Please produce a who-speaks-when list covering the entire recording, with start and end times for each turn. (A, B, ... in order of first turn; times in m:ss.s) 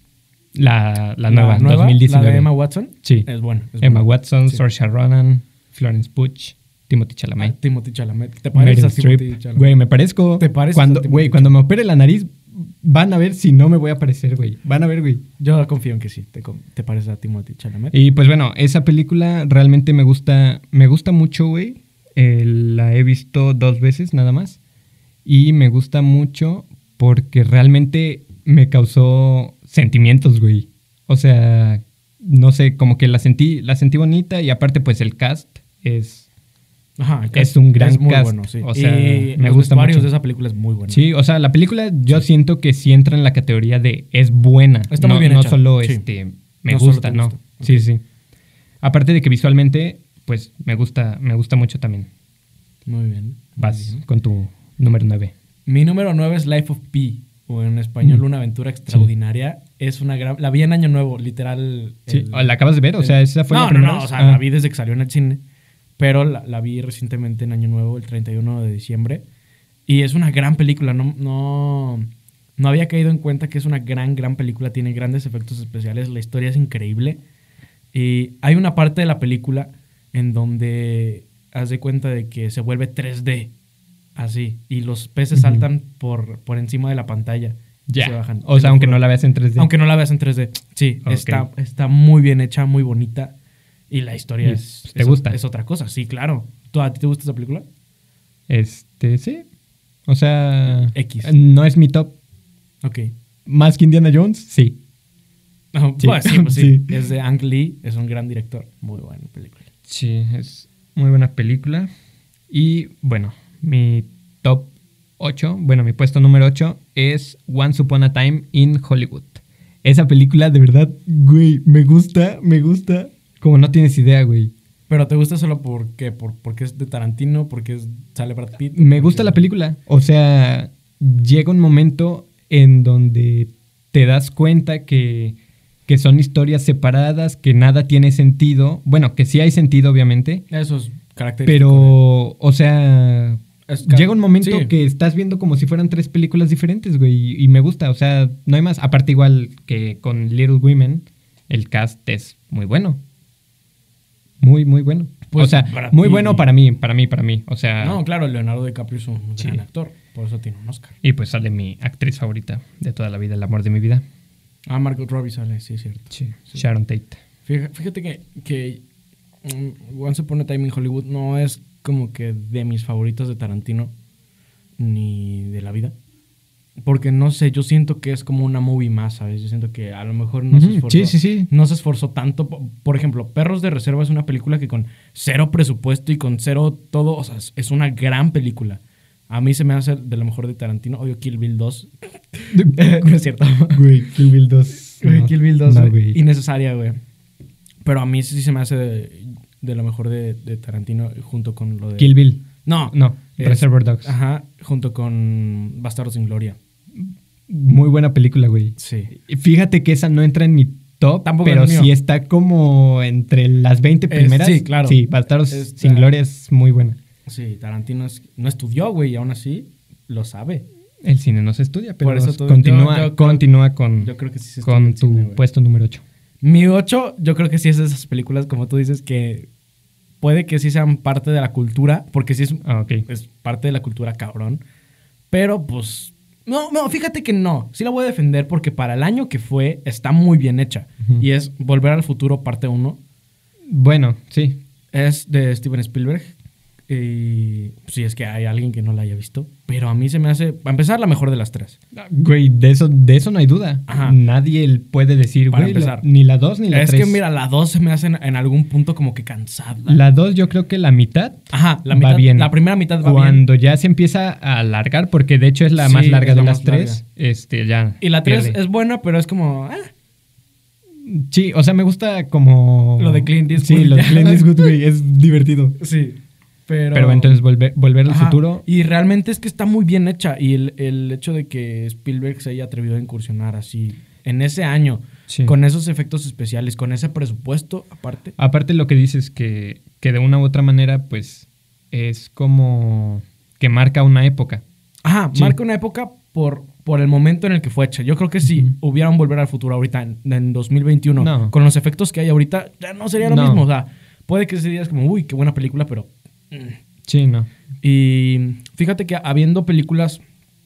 0:00.5-0:02.5 A
0:01.3-0:04.6 B
0:03.8-0:07.6 A
0:07.4-0:09.8 B
0:08.5-0:15.2 A
0:10.4-0:11.6 B
0:15.4-0:18.0 B
0:17.9-0:24.6 A
0:25.2-0:36.3 A
0:37.0-0:41.0 B
0:37.3-0:40.1 A
0:40.9-0:48.0 A
0:44.9-0:46.0 B
0:46.7-0:47.9 B
0:48.8-0:52.1 A
0:52.9-0:54.0 B
0:53.6-0:55.3 A
0:55.7-1:05.4 B
1:02.1-1:04.4 A
1:06.0-1:09.2 B
1:09.9-1:17.2 B
1:17.9-1:23.5 B
1:24.2-1:29.0 B
1:25.3-1:25.7 A
1:27.9-1:29.7 A
1:29.6-1:33.3 B
1:31.1-1:31.5 A
1:33.9-1:37.6 B
1:34.4-1:35.4 A
1:38.5-1:39.4 A
1:40.1-1:42.1 A
1:40.9-1:41.3 B
1:42.8-1:43.1 B
1:43.5-1:44.8 A
1:45.7-1:49.6 B
1:46.0-1:47.0 A
1:49.9-1:51.9 A
1:52.5-2:04.5 A
2:04.9-2:09.4 B
2:08.7-2:15.4 A
2:15.9-2:20.4 A
2:20.5-2:22.0 B
2:21.4-2:33.0 A
2:23.7-2:24.7 B
2:34.4-2:38.0 A
2:35.3-2:36.5 B
2:37.8-2:41.0 B
2:41.0-2:44.0 A
2:44.7-2:46.7 B
2:46.1-2:47.2 A
2:47.5-2:48.8 B
2:49.4-2:53.9 B
2:54.8-2:55.9 B
2:56.8-3:13.8 B
3:00.5-3:01.5 A
3:12.5-3:13.1 A
3:13.7-3:16.2 A
3:15.0-3:17.0 B
3:17.8-3:22.1 B
3:22.0-3:24.1 A
3:22.6-3:26.6 B
3:27.0-3:37.0 A
3:28.8-3:29.1 B
3:31.2-3:31.9 B
3:34.1-3:36.1 B
3:37.3-3:40.6 B
3:41.0-3:44.1 A
3:42.0-3:43.4 B
3:44.0-3:45.4 B
3:44.6-3:46.0 A
3:46.4-3:49.5 B
3:50.2-3:54.6 B
3:52.6-3:53.0 A
3:55.3-4:03.0 B
4:03.7-4:04.6 A
4:04.9-4:06.3 B
4:06.9-4:11.8 B
4:11.9-4:17.2 A
4:13.9-4:14.2 B
4:15.5-4:16.1 B
4:16.7-4:20.0 B
4:19.9-4:28.6 A
4:21.5-4:23.4 B
4:25.8-4:27.0 B
4:28.0-4:29.9 B
4:31.0-4:35.8 A
4:33.0-4:34.7 B
4:35.8-4:37.4 B
4:36.9-4:38.6 A
4:38.0-4:48.4 B
4:45.3-4:45.6 A
4:48.4-4:54.6 A
4:55.0-5:06.8 B
4:58.4-4:58.7 A
5:01.2-5:01.5 A
5:03.2-5:03.6 A
5:07.1-5:07.5 A
5:07.8-5:10.2 B